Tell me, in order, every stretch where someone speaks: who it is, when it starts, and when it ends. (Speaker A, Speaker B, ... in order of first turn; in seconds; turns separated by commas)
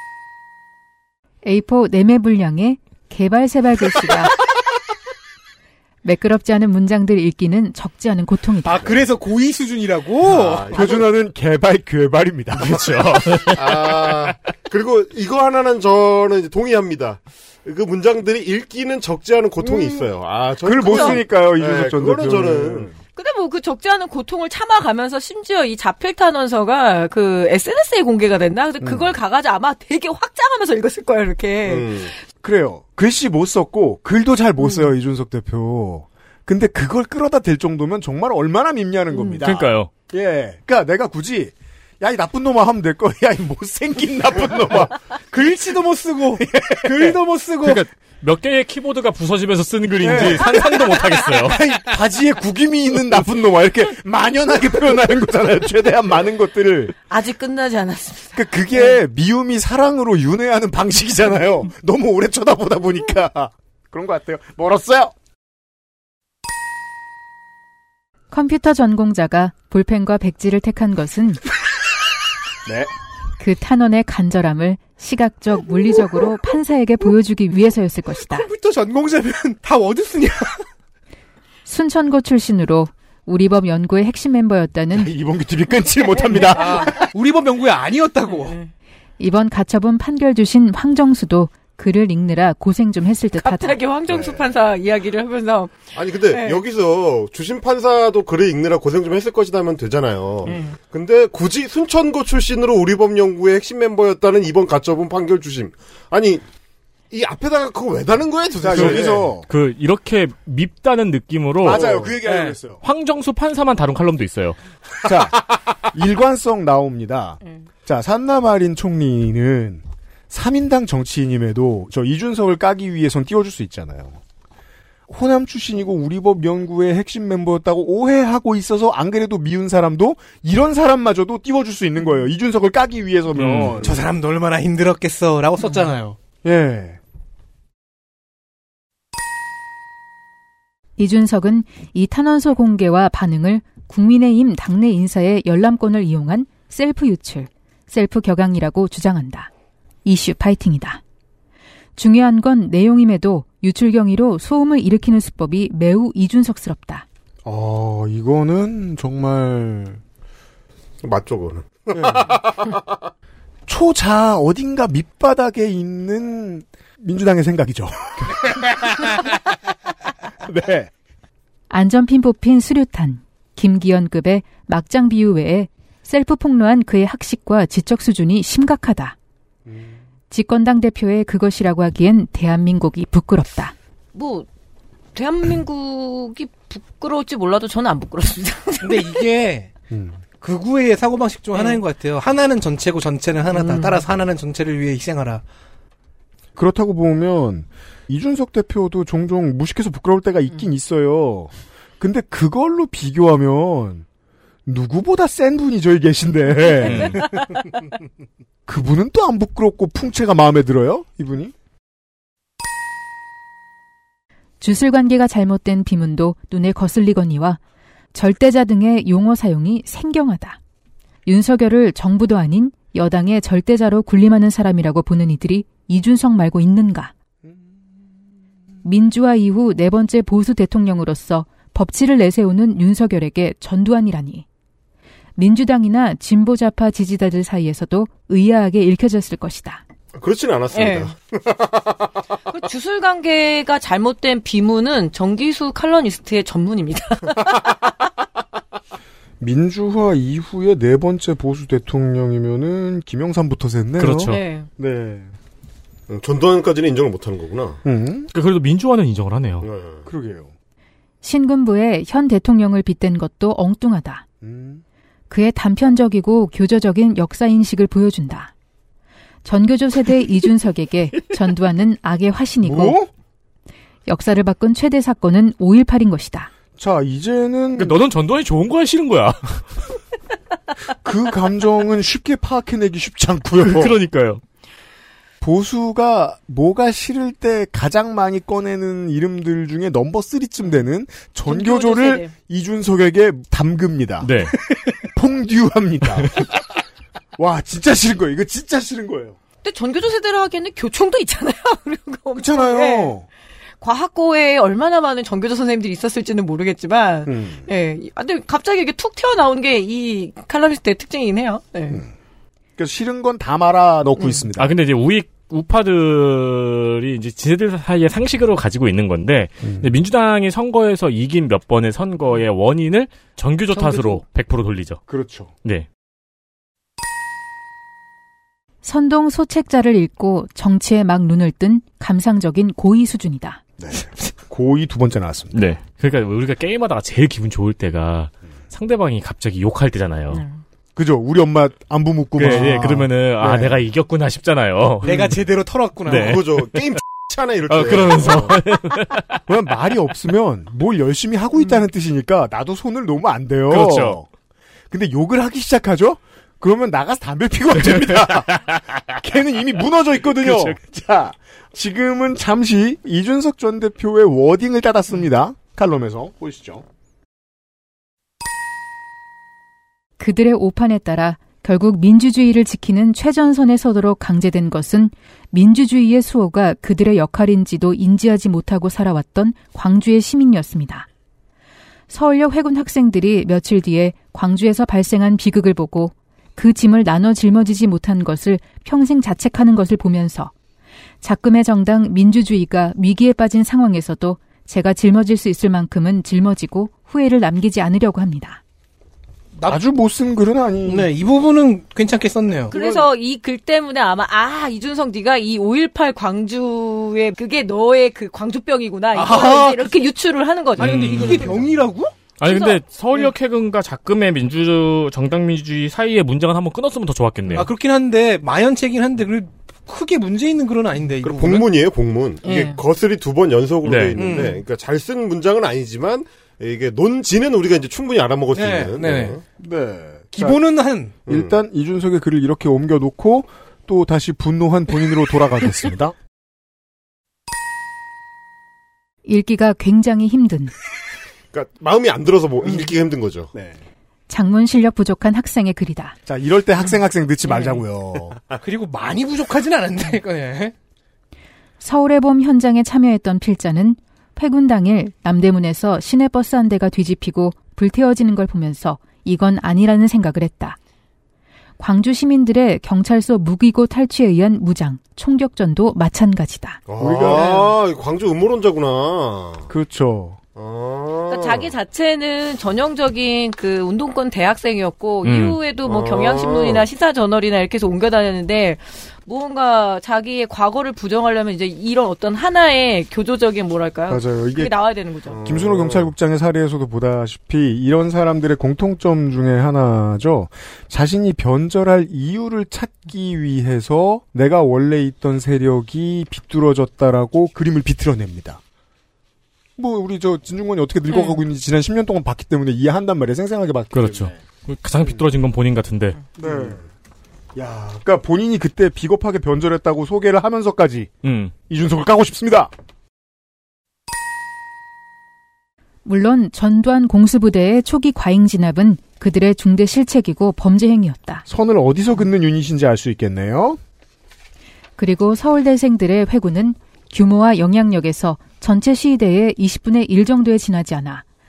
Speaker A: 1.4-4.3, Speaker A: 6.0-8.9, Speaker B: 8.6-10.8, Speaker C: 10.2-11.1, Speaker D: 10.7-13.5, Speaker E: 12.6-14.0, Speaker C: 13.5-22.9, Speaker D: 19.6-20.1, Speaker D: 20.6-22.9, Speaker F: 20.8-21.2, Speaker F: 23.1-32.1, Speaker D: 28.8-29.1, Speaker C: 31.6-32.1, Speaker D: 32.4-45.0, Speaker F: 34.6-34.9, Speaker F: 39.1-39.4, Speaker E: 39.4-39.9, Speaker B: 45.3-47.8, Speaker D: 46.4-47.2, Speaker E: 47.6-51.6, Speaker D: 50.0-50.8, Speaker D: 51.5-56.9, Speaker F: 57.1-59.0, Speaker D: 58.3-65.1, Speaker A: 68.3-71.4, Speaker D: 72.6-72.9, Speaker A: 73.4-78.5, Speaker B: 78.3-80.7, Speaker A: 81.7-85.1, Speaker D: 84.9-87.1, Speaker F: 86.0-86.9, Speaker B: 86.5-88.6, Speaker F: 88.3-88.7, Speaker A: 89.2-93.8, Speaker F: 93.4-96.6, Speaker D: 94.1-94.5, Speaker C: 95.9-106.4, Speaker F: 100.5-100.8, Speaker C: 107.1-109.3, Speaker D: 108.6-109.5, Speaker E: 108.7-111.9, Speaker D: 111.6-112.8, Speaker C: 111.6-112.2, Speaker B: 112.2-112.6, Speaker E: 112.8-114.6, Speaker D: 115.0-124.2, Speaker D: 125.1-134.0, Speaker E: 133.3-133.8, Speaker B: 133.8-136.2, Speaker D: 136.4-137.0, Speaker A: 141.0-149.5, Speaker A: 150.0-151.0, Speaker A: 152.0-157.1, Speaker D: 157.4-160.0, Speaker C: 161.0-163.1, Speaker D: 163.7-169.3, Speaker D: 170.4-170.9, Speaker A: 171.7-179.1, Speaker D: 179.7-180.0, Speaker A: 180.3-183.7, Speaker F: 184.1-184.5, Speaker F: 185.1-189.3, Speaker B: 188.8-189.7, Speaker D: 189.9-190.2, Speaker B: 190.4-195.4, Speaker F: 191.5-191.8, Speaker F: 193.5-194.0, Speaker D: 196.6-204.0, Speaker D: 204.7-207.2, Speaker F: 206.6-207.5, Speaker E: 206.8-207.3, Speaker D: 208.7-211.5, Speaker A: 214.6-217.6, Speaker A: 218.1-220.6, Speaker A: 221.2-227.1, Speaker A: 228.8-234.4, Speaker A: 235.4-239.8, Speaker C: 240.1-242.2, Speaker F: 240.7-241.1, Speaker F: 242.5-247.8, Speaker D: 249.4-255.3, Speaker E: 254.0-254.4, Speaker F: 254.3-254.7, Speaker C: 256.1-257.8, Speaker D: 257.8-258.3, Speaker E: 258.3-259.7, Speaker C: 259.6-260.1, Speaker D: 260.1-260.5, Speaker A: 261.2-264.2, Speaker D: 264.4-264.8, Speaker A: 265.3-268.5, Speaker A: 269.4-273.0, Speaker D: 272.6-273.1, Speaker A: 274.1-276.5, Speaker D: 276.8-278.0, Speaker E: 277.8-279.7, Speaker D: 281.0-284.0, Speaker E: 283.6-284.4, Speaker D: 285.4-294.3, Speaker F: 291.4-292.3, Speaker E: 294.2-294.6, Speaker D: 295.1-296.5, Speaker D: 297.4-299.4, Speaker F: 299.6-303.1, Speaker D: 302.4-303.2, Speaker F: 303.8-312.0, Speaker D: 307.2-307.6, Speaker D: 312.8-314.8, Speaker F: 314.2-314.5, Speaker E: 314.6-325.0, Speaker D: 319.6-319.9, Speaker F: 323.7-324.2, Speaker D: 325.1-325.5, Speaker A: 328.8-333.6, Speaker D: 333.8-335.6, Speaker E: 335.5-340.4, Speaker F: 340.3-340.6, Speaker D: 340.9-343.8, Speaker E: 342.4-345.4, Speaker D: 345.0-345.3, Speaker B: 345.0-346.4, Speaker E: 346.1-347.0, Speaker C: 346.1-348.6, Speaker E: 347.7-349.4, Speaker D: 349.5-354.3, Speaker E: 353.7-354.2, Speaker D: 354.9-366.8, Speaker E: 357.8-358.9, Speaker E: 360.3-360.8, Speaker A: 370.2-381.1, Speaker A: 382.1-390.5, Speaker A: 391.2-398.6, Speaker D: 399.6-401.1, Speaker B: 400.9-403.0, Speaker F: 402.7-411.6, Speaker B: 409.1-409.9, Speaker B: 410.8-412.1, Speaker E: 410.8-411.5, Speaker E: 412.4-417.7, Speaker F: 412.4-413.3, Speaker B: 417.5-421.7, Speaker C: 421.2-429.4, Speaker F: 422.4-422.8, Speaker E: 423.8-424.2, Speaker B: 424.1-424.6, Speaker B: 428.5-429.4, Speaker D: 429.6-430.6, Speaker B: 430.3-431.2, Speaker D: 431.2-436.1, Speaker C: 431.3-431.6, Speaker A: 439.2-440.7, Speaker C: 441.5-443.5, Speaker D: 443.5-443.8, Speaker A: 444.3-446.1, Speaker D: 446.2-448.4, Speaker B: 448.6-450.7, Speaker A: 451.8-460.8, Speaker A: 461.8-466.8, Speaker C: 466.9-469.7, Speaker D: 467.0-467.6, Speaker F: 467.3-467.7, Speaker D: 469.7-470.4, Speaker C: 470.6-471.7, Speaker F: 471.3-485.4, Speaker E: 475.2-475.6, Speaker C: 475.8-476.9, Speaker D: 484.1-484.7, Speaker C: 485.3-486.1, Speaker D: 485.4-498.6, Speaker D: 499.8-504.4, Speaker F: 501.1-501.4, Speaker E: 503.9-506.2, Speaker D: 506.4-506.8, Speaker C: 506.4-506.8, Speaker D: 507.5-511.1, Speaker E: 511.2-511.5, Speaker D: 511.7-512.7, Speaker A: 516.0-521.4, Speaker D: 521.5-523.8, Speaker A: 525.0-531.2